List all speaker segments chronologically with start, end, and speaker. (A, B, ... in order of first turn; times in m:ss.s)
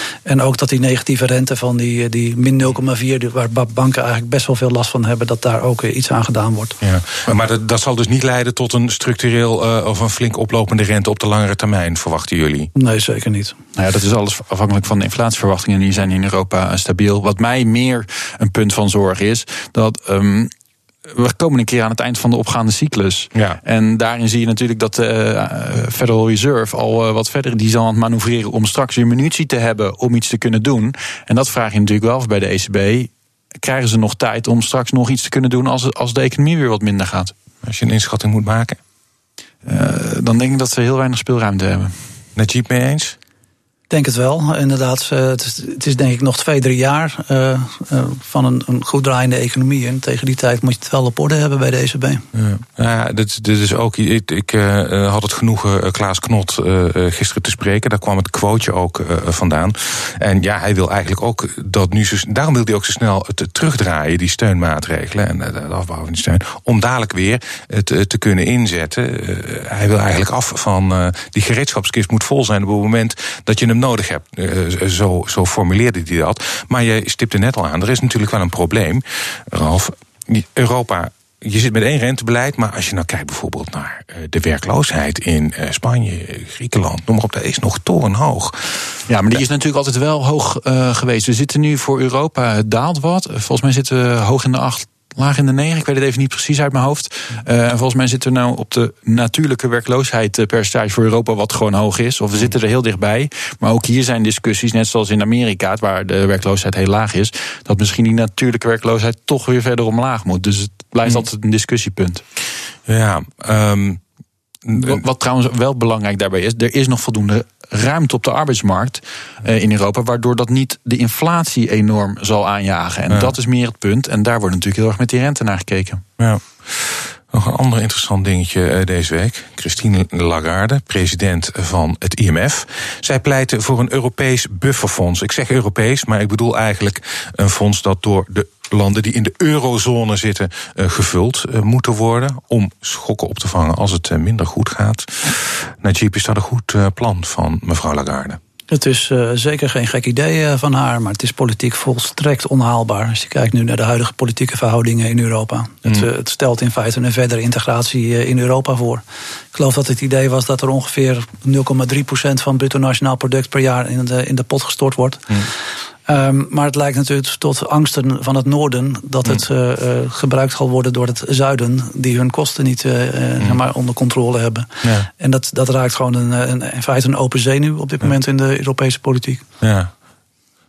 0:00.3-0:06.8 A
0:06.8-0:12.7 B
0:12.8-0:13.6 A
0:13.8-0:20.5 C
0:21.1-0:37.3 C
0:23.3-0:23.6 B
0:37.6-0:38.8 B
0:39.6-0:41.9 C
0:42.4-0:43.2 B
0:43.9-0:52.2 A
0:52.3-1:29.0 B
1:29.1-1:52.2 C
1:52.9-1:54.0 B
1:54.6-1:55.0 B
1:54.8-2:06.0 C
2:06.2-2:28.4 B
2:28.7-2:39.0 A
2:39.5-2:45.5 A
2:46.1-2:59.4 A
2:54.8-2:55.1 B
2:59.6-2:59.9 B